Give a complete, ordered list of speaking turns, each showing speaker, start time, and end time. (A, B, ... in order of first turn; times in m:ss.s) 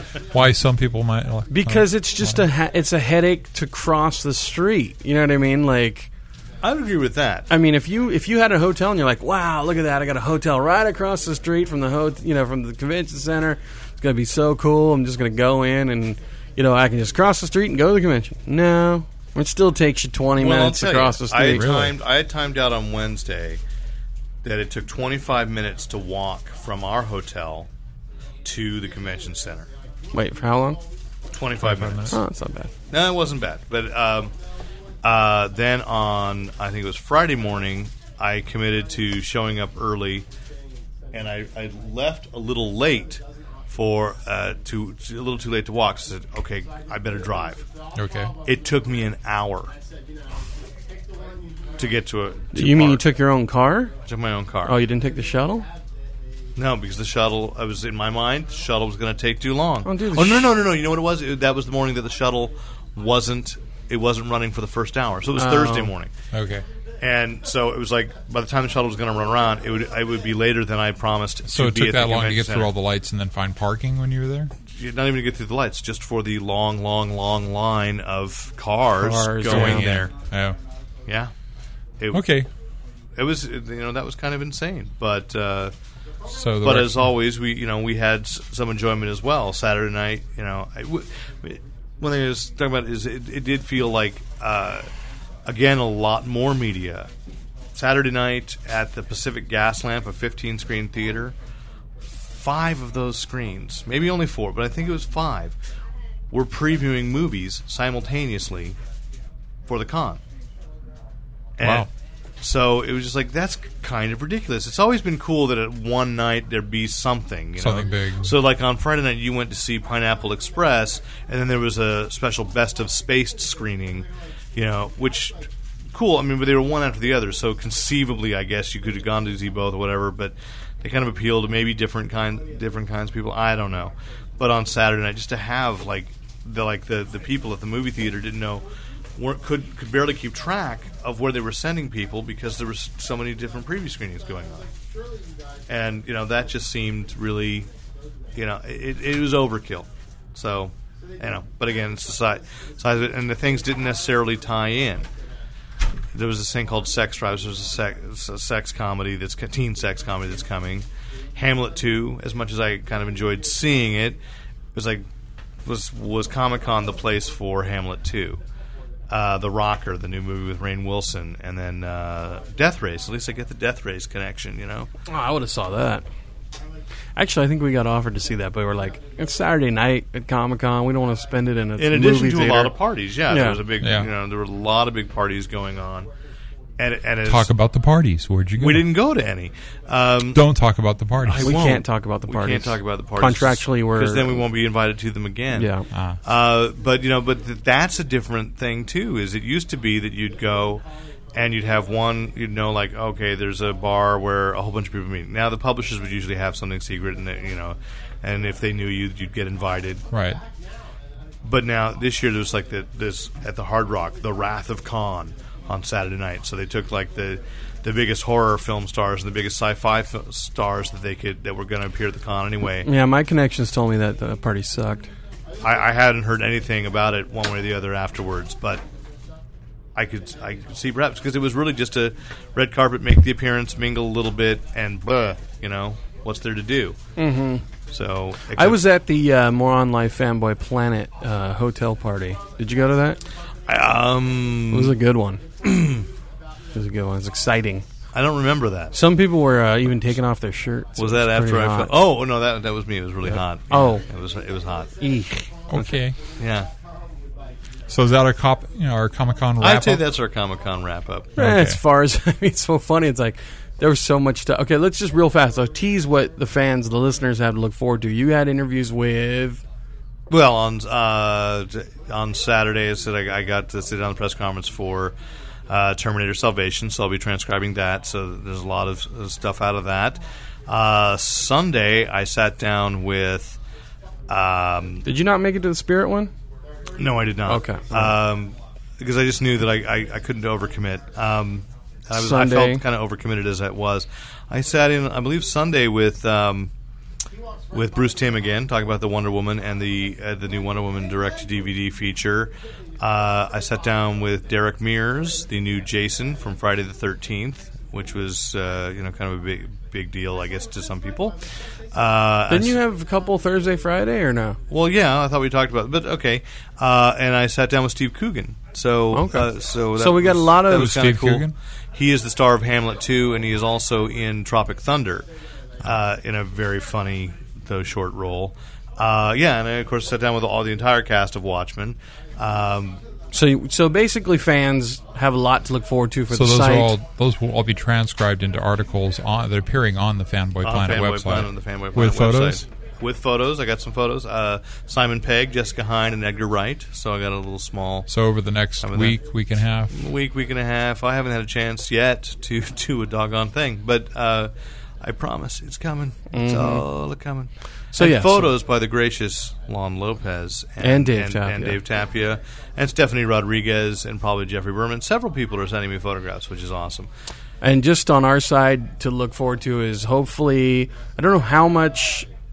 0:00.3-0:02.4 A
0:01.5-0:06.1 B
0:06.6-0:07.5 C
0:07.5-0:21.6 B
0:20.4-0:23.6 C
0:21.4-0:22.0 A
0:24.4-0:27.7 C
0:28.4-0:29.7 C
0:30.1-0:30.8 B
0:31.3-0:32.2 C
0:31.6-0:32.2 A
0:32.1-0:32.7 B
0:32.9-0:34.3 C
0:35.0-0:40.2 C
0:41.1-0:47.7 C
0:47.9-0:48.3 A
0:48.4-0:49.7 C
0:51.8-0:53.0 C
0:52.5-0:53.9 B
0:54.0-0:54.8 C
0:54.6-0:55.7 B
0:56.6-1:06.1 C
0:59.8-1:00.5 B
1:05.4-1:05.9 B
1:06.3-1:06.6 A
1:07.0-1:12.7 C
1:11.5-1:14.5 A
1:14.7-1:20.1 C
1:19.0-1:20.0 B
1:19.4-1:20.6 A
1:22.0-1:22.2 C
1:22.1-1:22.5 A
1:23.2-1:25.7 C
1:26.3-1:27.0 A
1:26.6-1:34.9 C
1:35.4-1:37.1 C
1:37.7-1:41.4 C
1:42.0-1:45.6 C
1:46.3-1:48.8 C
1:49.7-1:50.2 C
1:51.6-1:51.9 C
1:51.6-1:51.9 A
1:52.4-2:18.6 C
1:57.6-1:58.3 A
2:19.2-2:24.7 C
2:25.7-2:27.7 C
2:28.4-2:35.1 C
2:36.1-2:44.2 C
2:44.7-2:45.0 C
2:45.6-2:48.4 C
2:49.1-2:54.9 C
2:55.1-2:56.0 B
2:57.2-3:02.7 B
3:01.8-3:06.1 C
3:03.3-3:03.6 B
3:03.8-3:04.1 A
3:06.8-3:07.5 C
3:07.2-3:08.9 A
3:08.6-3:10.4 C
3:10.3-3:11.6 A
3:11.2-3:15.7 C
3:11.4-3:14.4 B
3:15.5-3:15.9 B
3:15.9-3:16.2 A
3:16.2-3:30.0 C
3:30.1-3:30.4 A
3:31.4-3:42.9 C
3:42.8-3:45.1 B
3:45.6-3:48.8 C
3:49.9-3:57.0 C
3:57.2-3:57.6 B
3:57.9-3:58.8 C
3:58.5-4:03.2 B
4:03.7-4:04.9 C
4:04.7-4:05.4 B
4:05.6-4:06.0 C
4:06.7-4:07.9 B
4:08.1-4:08.9 C
4:08.9-4:11.9 B
4:11.0-4:14.9 C
4:13.3-4:14.0 B
4:15.0-4:16.0 B
4:15.7-4:16.2 A
4:16.4-4:16.7 C
4:17.9-4:20.0 A
4:19.6-4:21.3 C
4:21.4-4:21.8 A
4:21.4-4:29.6 B
4:30.3-4:35.2 C
4:35.7-4:43.6 C
4:44.3-4:45.0 C
4:45.0-4:46.3 B
4:47.0-4:56.7 C
4:47.4-4:48.1 B
4:52.1-4:52.8 B
4:57.7-5:11.4 C
5:11.9-5:12.8 C
5:12.5-5:14.6 B
5:14.7-5:25.2 C
5:19.1-5:21.0 B
5:20.7-5:21.5 A
5:25.8-5:33.0 C
5:33.3-5:37.0 B
5:36.3-5:42.6 A
5:40.6-5:48.1 C
5:48.1-5:49.9 A
5:48.8-5:49.2 C
5:49.9-5:54.5 C
5:55.0-6:07.1 C
5:56.3-5:56.9 B
5:57.9-5:58.5 B
6:00.8-6:01.8 B
6:07.6-6:12.3 B